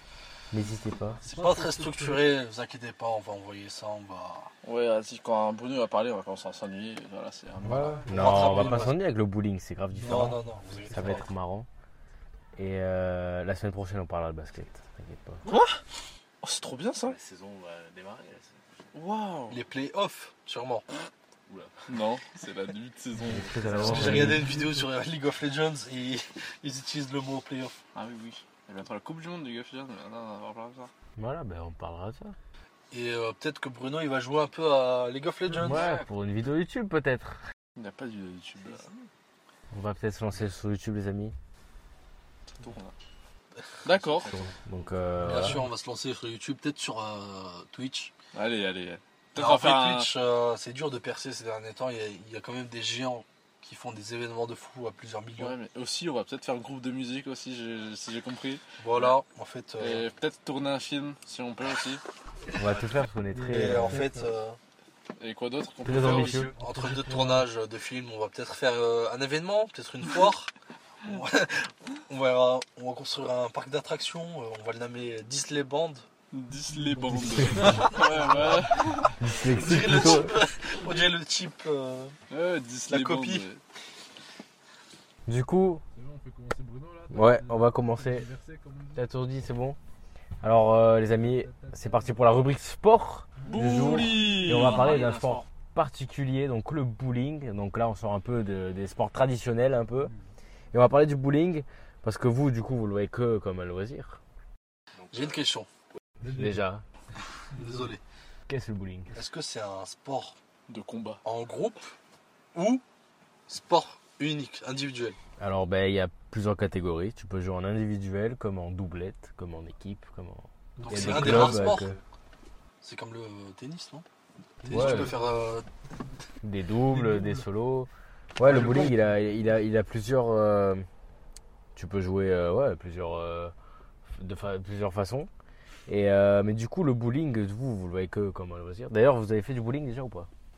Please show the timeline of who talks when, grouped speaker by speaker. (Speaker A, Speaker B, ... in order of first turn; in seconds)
Speaker A: 0.5-1.2, 7.6-11.7, 12.6-15.4, 23.3-24.5, 31.1-32.4, 35.6-37.4, 39.7-41.3, 44.3-45.6, 62.5-64.1, 65.8-66.5, 77.2-78.0, 79.0-80.4, 85.2-85.8, 87.1-88.3, 88.9-89.8, 90.4-100.1, 100.7-104.2, 106.3-106.8, 108.5-109.1, 115.4-122.0, 124.7-125.2, 126.4-130.8, 131.7-133.5, 134.1-135.3, 135.9-140.3
Speaker B: 1.2-2.2, 10.0-10.4, 63.4-64.2, 66.5-67.4, 76.9-79.0, 85.9-89.0, 106.2-106.6, 120.8-121.4, 124.6-125.2, 126.9-127.5, 128.4-128.9
Speaker C: 1.2-4.5, 8.1-9.0, 10.0-11.3, 19.5-20.9, 23.8-27.8, 32.9-35.9, 45.2-48.1, 49.3-55.5, 58.8-60.0, 63.5-64.6, 66.3-70.5, 71.0-76.0, 79.5-82.1, 82.9-83.4, 105.1-105.7, 107.5-108.0, 109.1-110.3, 111.2-111.9, 112.5-112.8, 113.5-115.2, 120.8-122.0, 122.8-124.0, 124.6-125.7
Speaker D: 4.6-8.0, 15.4-15.8, 16.4-17.2, 18.9-19.6, 21.9-24.3, 27.9-30.9, 37.8-38.9, 42.6-42.9, 43.8-44.3, 48.3-50.1, 55.4-59.1, 59.8-62.0, 65.2-66.5, 76.3-79.2, 82.3-83.6, 93.5-95.0, 110.7-111.2
Speaker E: 17.1-18.6, 21.5-21.9, 23.6-24.4, 35.7-36.0, 94.4-95.5, 105.0-105.4